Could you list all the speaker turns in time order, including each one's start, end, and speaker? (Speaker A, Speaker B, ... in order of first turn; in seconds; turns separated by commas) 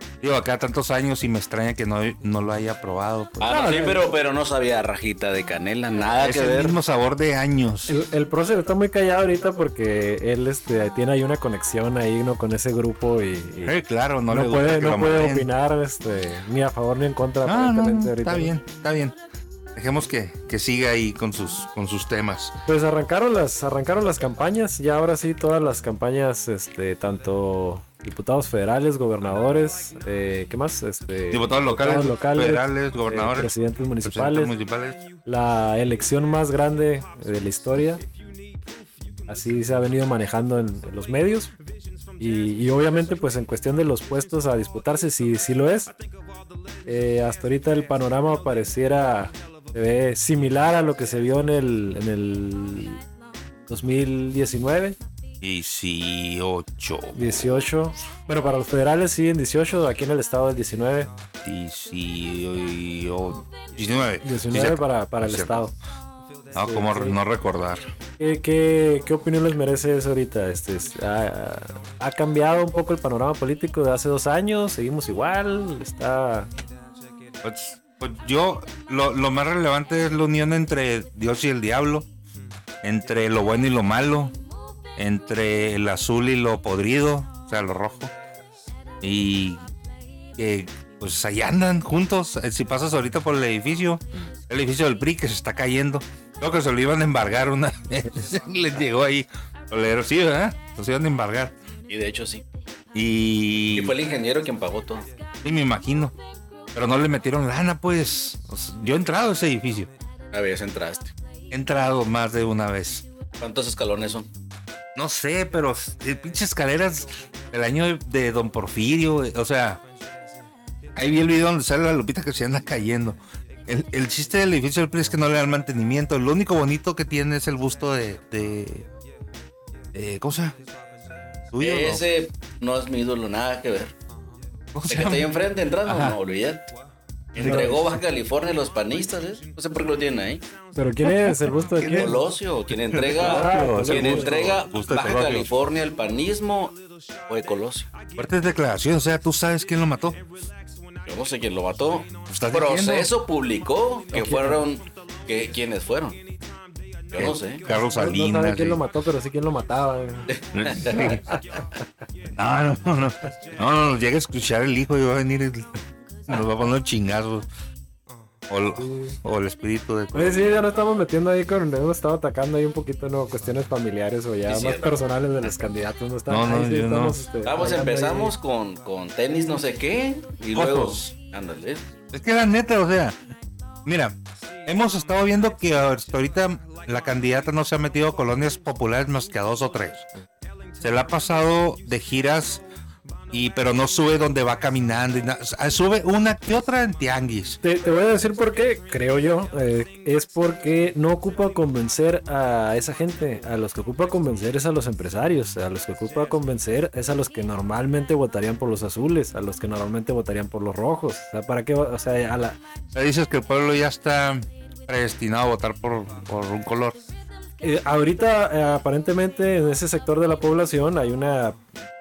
Speaker A: 0.2-3.7, Speaker B: 3.4-6.8, Speaker C: 3.5-4.1, Speaker A: 6.2-7.9, Speaker C: 7.9-13.8, Speaker A: 13.6-15.5, Speaker C: 14.3-18.5, Speaker A: 17.4-19.2, Speaker A: 19.7-22.5, Speaker C: 22.6-34.5, Speaker A: 31.3-33.5, Speaker A: 34.0-35.0, Speaker C: 35.2-38.0, Speaker C: 39.3-41.5, Speaker C: 42.2-45.9, Speaker C: 46.9-53.0, Speaker C: 53.7-55.0, Speaker A: 55.4-57.2, Speaker C: 57.1-61.1, Speaker A: 61.4-65.6, Speaker C: 64.2-65.7, Speaker C: 66.5-67.2, Speaker A: 66.5-67.9, Speaker C: 68.2-76.5, Speaker A: 77.4-82.1, Speaker A: 82.8-84.3, Speaker A: 85.0-88.1, Speaker A: 89.0-89.6, Speaker A: 90.4-101.5, Speaker B: 101.9-102.4, Speaker A: 102.9-103.9, Speaker B: 103.7-105.1, Speaker A: 105.4-106.1, Speaker A: 106.7-109.9, Speaker B: 110.3-111.1, Speaker A: 111.5-113.0, Speaker B: 113.4-114.3, Speaker A: 114.9-119.8, Speaker A: 120.9-128.8, Speaker A: 129.9-130.6, Speaker A: 131.5-132.0, Speaker B: 131.6-133.9, Speaker A: 134.7-135.3, Speaker B: 134.9-136.7, Speaker A: 135.8-136.2, Speaker A: 137.3-138.0, Speaker B: 137.3-140.4, Speaker C: 137.4-137.8, Speaker C: 140.7-142.2, Speaker A: 141.1-142.1, Speaker B: 142.0-147.9, Speaker A: 142.7-145.5, Speaker C: 143.2-144.6, Speaker A: 148.2-150.2, Speaker B: 151.1-156.2, Speaker A: 152.3-153.1, Speaker C: 154.1-154.7, Speaker B: 157.1-157.6, Speaker A: 157.2-158.8, Speaker C: 157.7-160.3, Speaker B: 160.3-161.1, Speaker A: 160.5-161.2, Speaker C: 160.9-161.4, Speaker A: 162.3-167.5, Speaker A: 168.5-170.6, Speaker C: 168.8-169.1, Speaker C: 170.1-178.3, Speaker B: 174.4-175.0, Speaker A: 176.3-177.2, Speaker B: 177.4-181.8, Speaker A: 180.5-181.1, Speaker A: 182.1-183.2, Speaker A: 183.8-190.1, Speaker A: 190.8-192.6, Speaker A: 193.3-197.6, Speaker C: 197.6-212.6, Speaker A: 212.9-217.0, Speaker C: 217.6-221.6